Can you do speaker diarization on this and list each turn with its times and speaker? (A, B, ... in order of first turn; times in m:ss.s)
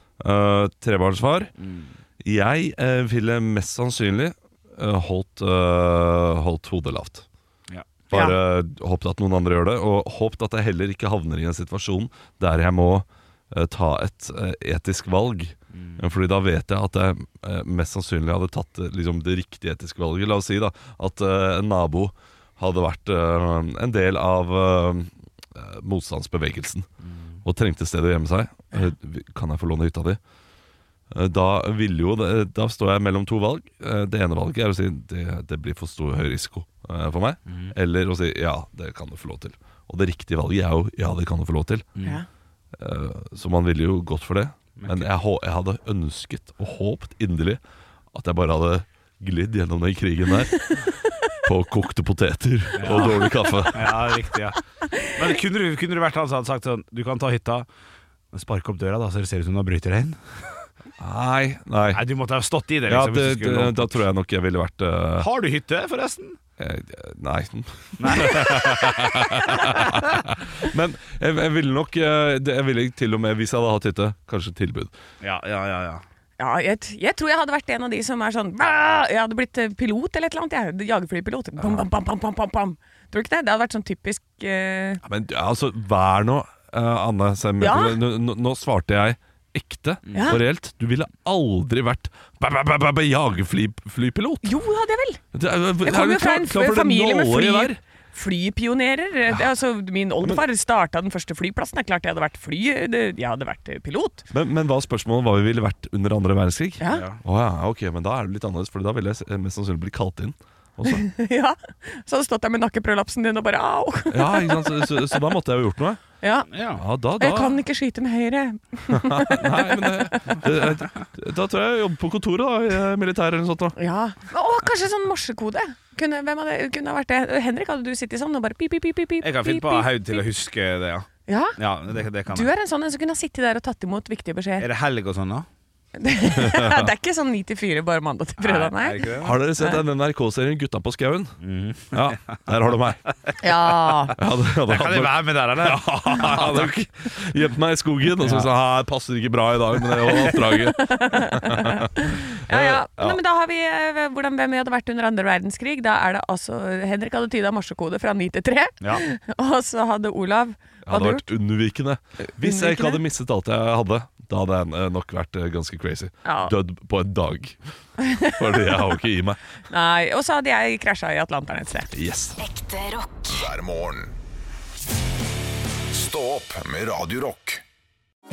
0:00.2-0:01.5 A
0:01.6-0:01.9 B
0:02.2-0:07.2 A
0:07.7-0:08.0 B
0:08.1-0:26.9 A
0:08.1-0:08.4 C
0:15.7-0:16.0 B
0:27.0-0:27.4 B
0:27.4-0:30.2 A
0:31.1-0:41.9 A
0:37.5-0:37.7 B
0:42.0-0:42.2 B
0:42.8-0:47.6 A
0:44.8-0:45.1 B
0:48.1-0:54.2 A
0:52.8-0:57.7 B
0:58.3-1:00.6 B
1:01.0-1:02.0 A
1:01.9-1:04.0 B
1:02.9-1:05.3 A
1:05.2-1:06.4 B
1:06.6-1:14.9 A
1:08.0-1:10.0 B
1:15.2-1:16.0 B
1:16.4-1:25.0 C
1:25.0-1:34.6 A
1:27.6-1:28.0 C
1:30.1-1:30.4 B
1:30.1-1:30.4 C
1:34.4-1:35.2 C
1:35.3-1:37.8 A
1:35.8-1:44.2 C
1:44.3-1:51.0 A
1:46.8-1:47.0 C
1:46.9-1:47.2 B
1:50.8-1:54.8 C
1:54.1-1:56.0 A
1:56.2-1:56.5 C
1:56.5-1:56.8 B
1:56.8-1:57.6 A
1:57.2-2:00.3 C
1:59.0-2:03.8 A
2:03.8-2:10.2 C
2:09.2-2:12.5 B
2:11.3-2:11.6 C
2:12.3-2:14.7 C
2:14.6-2:15.5 B
2:16.0-2:19.1 C
2:16.4-2:16.9 A
2:18.4-2:19.4 B
2:19.2-2:21.3 A
2:21.4-2:22.4 B
2:21.9-2:23.0 A
2:23.4-2:24.1 C
2:23.8-2:26.9 B
2:24.2-2:33.2 A
2:28.2-2:28.5 B
2:30.4-2:41.2 C
2:40.8-2:47.6 A
2:42.3-2:43.0 C
2:46.2-2:46.5 C
2:48.0-2:48.6 C
2:48.2-2:49.4 A
2:49.7-2:51.9 C
2:51.9-2:52.4 A
2:52.9-2:54.1 D
2:55.9-2:57.6 D